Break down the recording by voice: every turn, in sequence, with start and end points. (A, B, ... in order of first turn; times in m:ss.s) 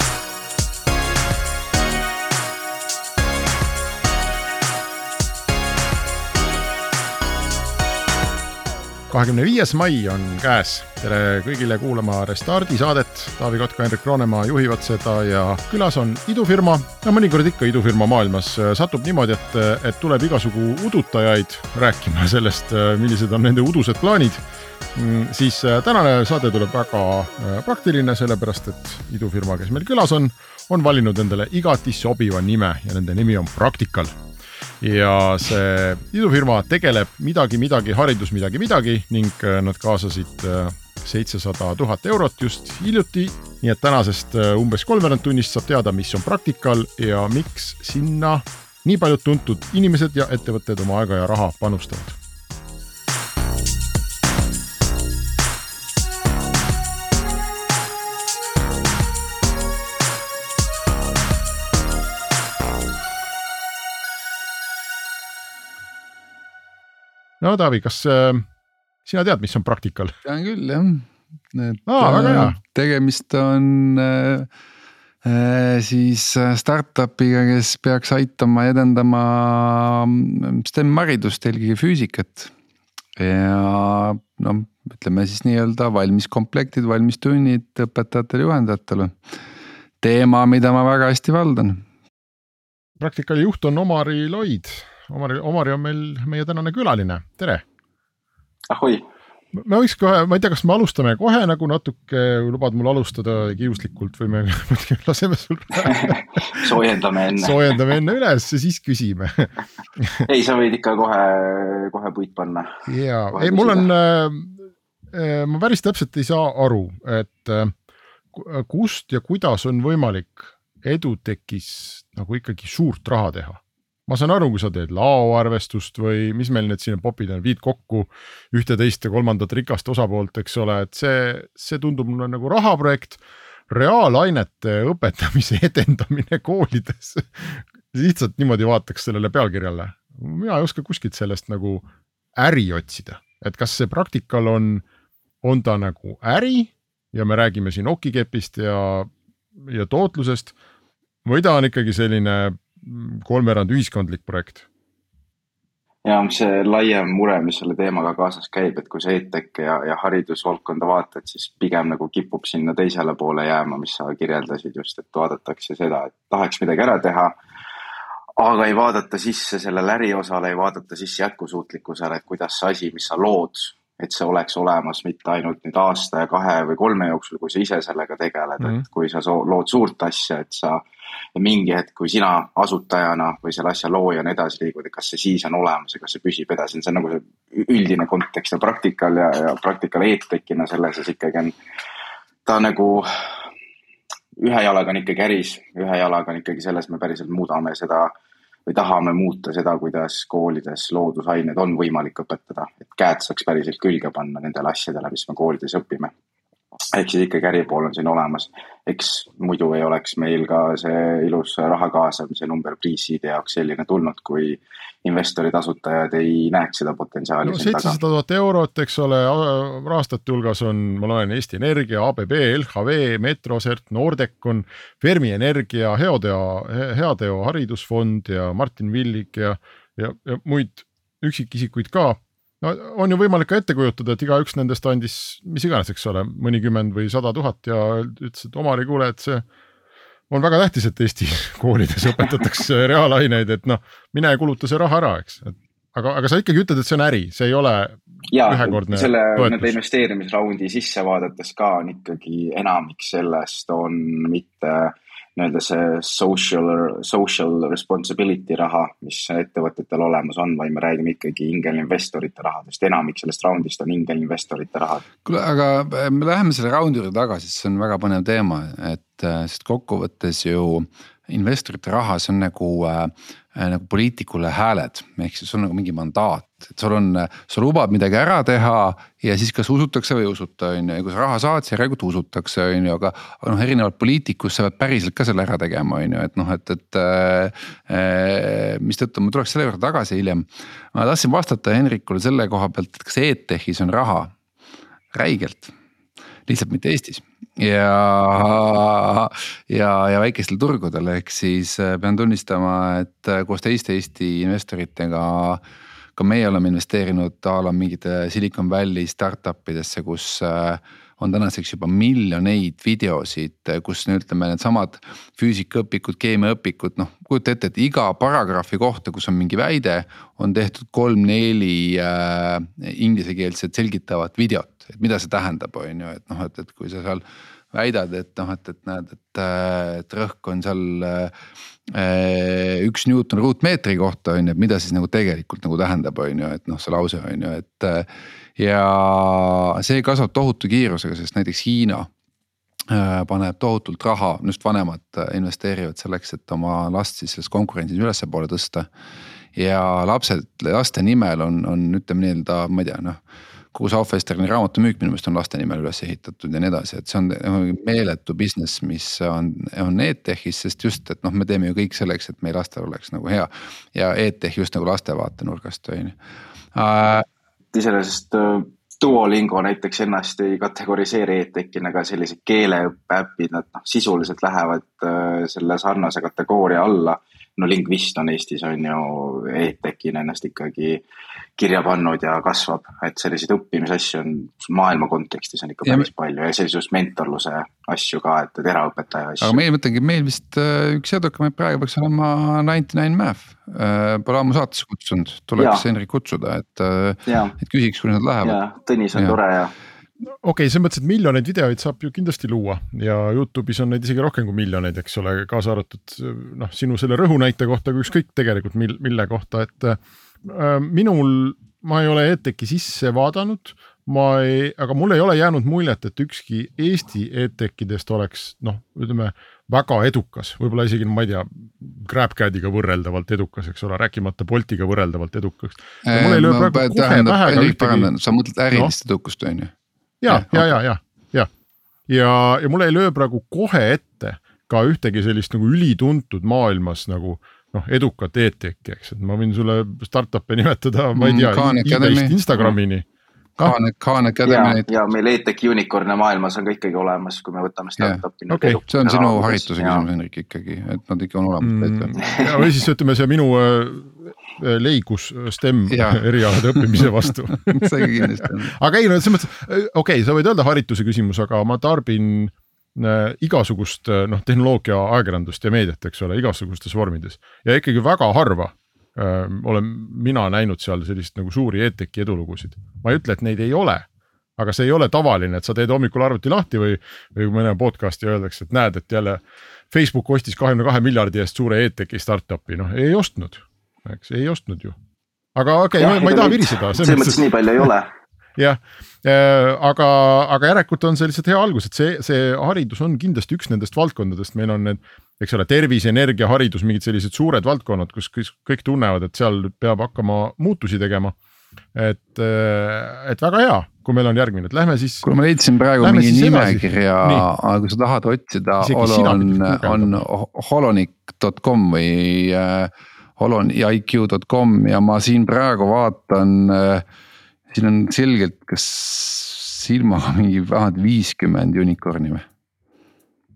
0:09.1-0:24.4 A
0:25.0-0:34.2 A
0:34.8-0:52.2 A
1:07.4-1:08.5 A
1:09.0-1:10.1 A
1:10.2-1:14.5 B
1:11.9-1:12.6 A
1:15.2-1:22.5 B
1:23.2-1:29.2 B
1:30.0-1:31.8 B
1:33.0-1:37.6 A
1:38.7-1:39.0 C
1:39.6-1:46.7 A
1:45.8-1:47.6 C
1:47.4-1:50.2 A
1:50.3-1:52.7 C
1:52.9-1:54.6 A
1:53.3-1:53.9 C
1:55.1-1:57.7 A
1:58.3-2:21.9 A
2:22.4-2:24.8 A
2:25.4-2:29.1 A
2:29.7-2:30.5 A
2:31.2-2:34.7 A
2:36.0-2:47.3 C
2:48.4-3:00.8 C
3:01.4-3:11.6 C
3:12.4-3:13.5 C
3:14.4-3:18.1 C
3:18.7-3:26.1 C
3:26.9-3:38.0 C
3:37.4-3:59.4 A
4:00.3-4:09.8 A
4:08.3-4:25.0 C
4:25.2-4:54.4 B
4:55.1-4:55.7 B
4:56.5-5:05.6 B
5:06.2-5:31.3 B
5:31.9-5:42.1 B
5:42.9-5:48.9 B
5:49.6-5:53.2 B
5:53.7-6:06.2 B
6:06.7-6:07.3 B
6:07.7-6:21.0 C
6:21.6-6:29.6 C
6:29.4-6:38.6 B
6:35.6-6:35.8 C
6:37.3-6:37.6 C
6:38.4-6:39.7 C
6:40.4-7:08.1 A
7:06.0-7:09.7 B
7:10.2-7:11.5 A
7:10.3-7:10.7 B
7:12.1-7:23.1 A
7:21.2-7:22.7 B
7:23.6-7:24.9 B
7:24.4-7:30.1 C
7:28.5-7:28.8 A
7:28.9-7:32.4 B
7:31.6-8:05.0 A
7:32.2-7:32.5 C
7:35.9-7:37.0 B
7:37.7-7:38.8 B
8:05.6-8:07.4 A
8:06.0-8:08.1 C
8:08.6-8:21.4 A
8:21.9-8:25.3 A
8:25.2-8:37.0 B
8:26.0-8:27.5 A
8:28.8-8:30.2 A
8:37.7-8:42.4 B